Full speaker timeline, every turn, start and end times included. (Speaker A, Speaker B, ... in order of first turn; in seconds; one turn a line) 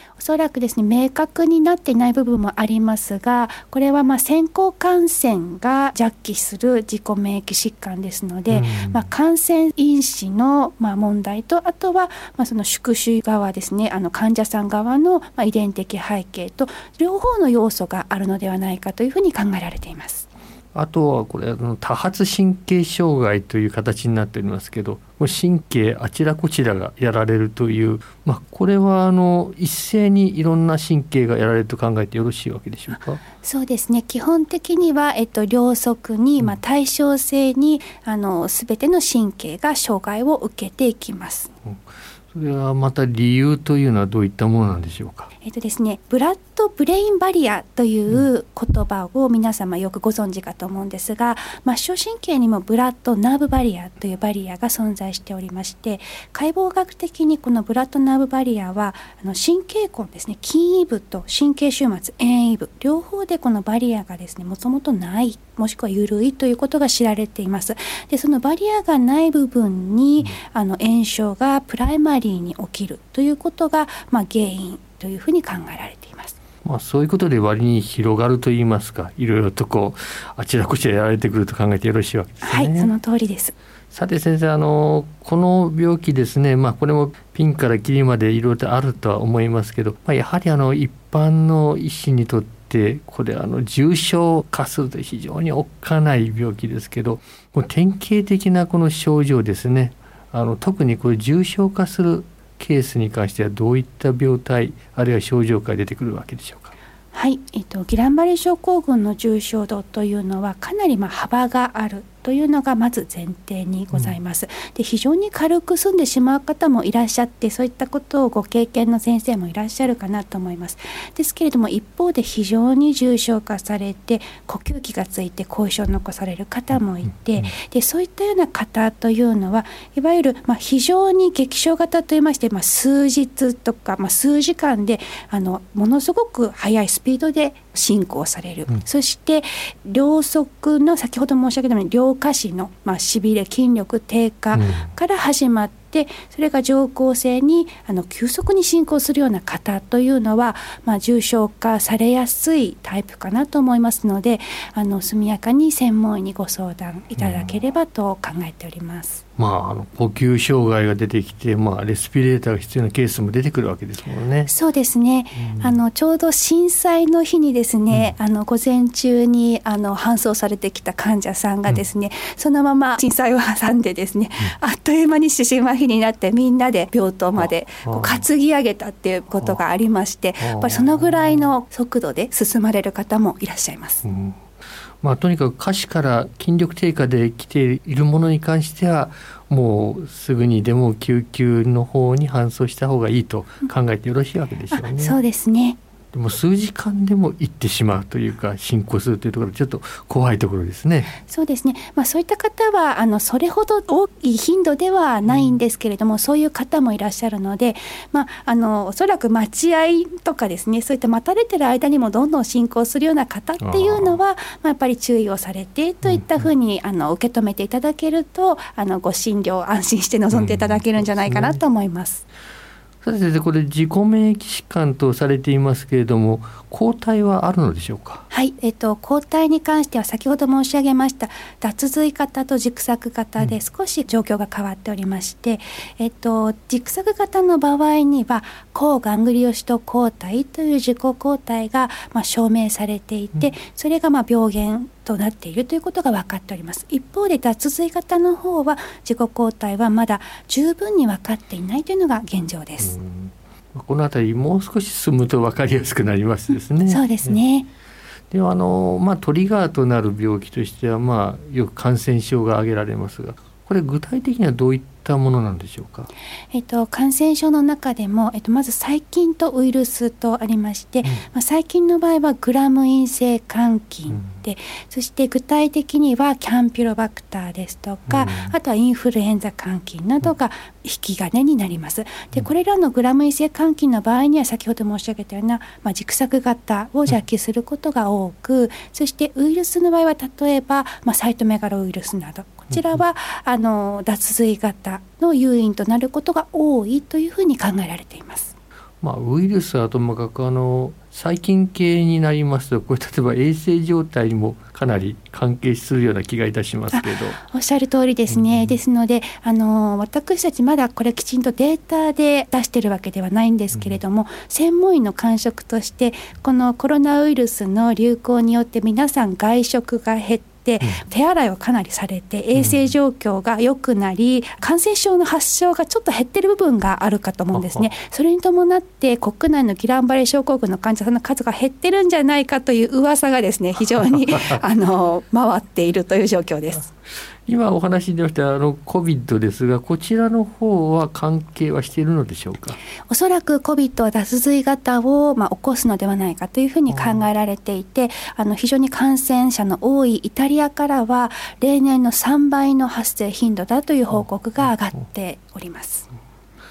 Speaker A: 0.1-20.3
Speaker B: 8.5-9.1
Speaker B: 20.7-33.2
Speaker A: 33.2-41.5
Speaker B: 41.6-45.3
Speaker A: 45.4-76.4
Speaker B: 76.6-82.9
Speaker A: 82.4-83.5
Speaker B: 83.9-106.7
Speaker A: 107.1-159.2
Speaker B: 144.5-144.9
Speaker B: 157.2-157.4
Speaker B: 159.4-164.5
Speaker A: 164.5-184.0
Speaker B: 165.4-165.8
Speaker B: 167.9-168.2
Speaker B: 177.4-178.3
Speaker B: 180.4-181.5
Speaker B: 184.0-184.5
Speaker B: 185.0-195.2
Speaker A: 194.7-195.8
Speaker B: 196.1-201.1
Speaker A: 201.2-222.2
Speaker B: 205.3-205.6
Speaker B: 213.6-214.2
Speaker B: 216.0-216.5
Speaker B: 220.3-221.6
Speaker B: 223.0-228.2
Speaker A: 228.3-253.0
Speaker B: 252.8-257.4
Speaker A: 256.8-257.7
Speaker B: 258.3-266.1
Speaker A: 266.5-298.6
Speaker B: 278.1-278.5
Speaker B: 292.7-293.0
Speaker B: 299.0-307.4
Speaker A: 306.9-336.9
Speaker B: 308.3-308.8
Speaker B: 313.7-314.0
Speaker B: 322.5-322.9
Speaker B: 327.5-327.9
Speaker B: 333.9-334.6
Speaker B: 337.4-342.8
Speaker A: 343.1-356.1
Speaker B: 346.9-347.3
Speaker B: 354.1-354.7